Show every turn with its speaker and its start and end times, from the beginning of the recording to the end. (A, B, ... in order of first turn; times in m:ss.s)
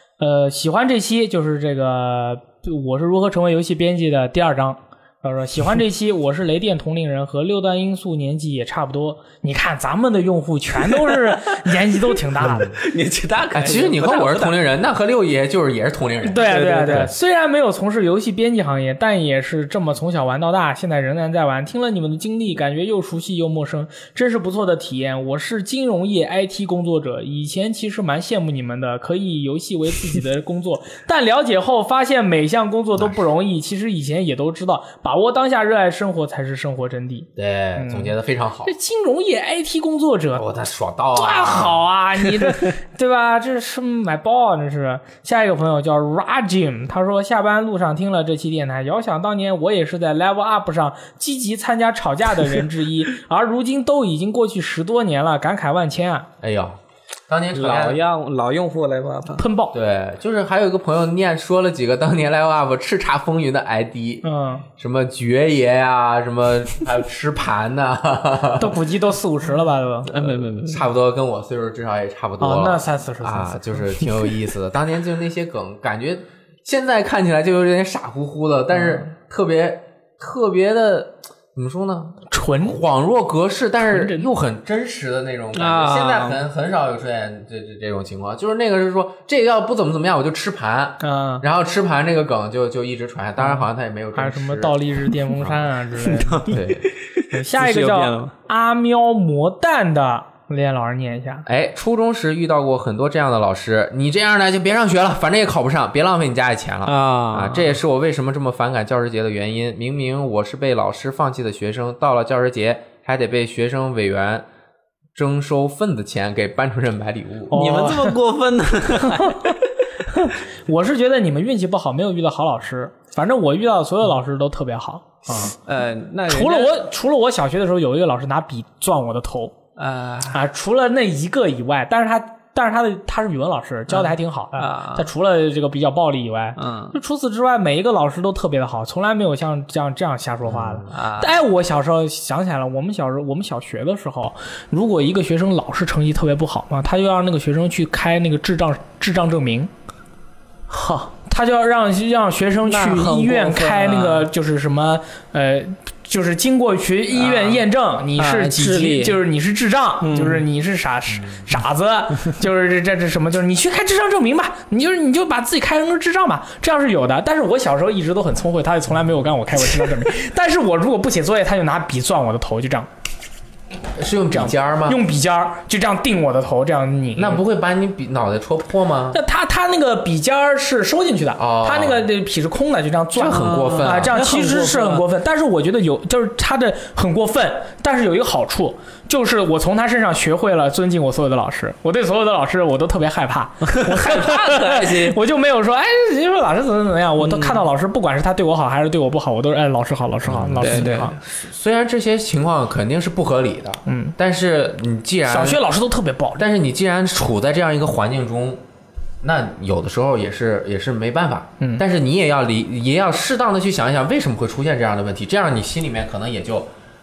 0:00.2-0:12.7 A
0:10.8-0:14.6 B
0:12.4-0:12.8 C
0:13.5-0:17.1 C
0:16.2-0:38.1 A
0:16.4-0:17.1 B
0:33.0-0:33.2 C
0:37.4-0:38.7 C
0:38.6-0:40.5 A
0:40.4-0:41.8 C
0:41.2-0:56.3 A
0:56.4-0:56.8 C
0:57.3-0:58.0 C
0:57.5-0:59.4 B
0:59.4-0:59.7 A
0:59.7-1:04.2 C
1:04.2-1:04.6 A
1:04.8-1:08.8 C
1:08.6-1:10.1 A
1:10.1-1:34.8 C
1:10.1-1:10.9 B
1:12.4-1:13.9 A
1:18.8-1:19.0 A
1:22.3-1:22.8 A
1:23.9-1:24.3 A
1:25.5-1:26.4 B
1:31.0-1:31.4 A
1:33.4-1:36.5 A
1:35.4-1:35.7 C
1:36.0-1:38.3 B
1:36.5-1:36.9 C
1:37.3-1:41.5 A
1:41.5-1:54.5 C
1:46.8-1:47.7 B
1:55.2-1:57.6 C
1:57.5-1:58.2 A
1:57.5-1:59.6 B
1:59.2-1:59.5 A
2:00.1-2:05.6 A
2:05.4-2:06.9 B
2:06.3-2:09.6 A
2:09.8-2:10.4 B
2:10.3-2:29.7 A
2:13.9-2:15.1 B
2:16.6-2:17.0 B
2:20.5-2:20.9 C
2:20.9-2:21.4 B
2:30.7-2:31.1 B
2:31.2-2:52.9 A
2:32.7-2:34.3 B
2:37.1-2:37.6 B
2:38.2-2:39.2 B
2:40.0-2:40.4 B
2:54.0-2:55.0 C
2:54.3-2:57.4 A
2:57.2-2:59.2 C
2:59.1-3:21.2 A
3:01.4-3:02.1 C
3:03.2-3:04.2 C
3:03.3-3:05.0 B
3:13.6-3:15.2 B
3:17.2-3:17.6 B
3:20.2-3:25.6 C
3:20.6-3:21.2 B
3:23.9-3:24.2 A
3:25.3-3:26.4 A
3:26.4-3:28.6 C
3:29.2-3:36.7 C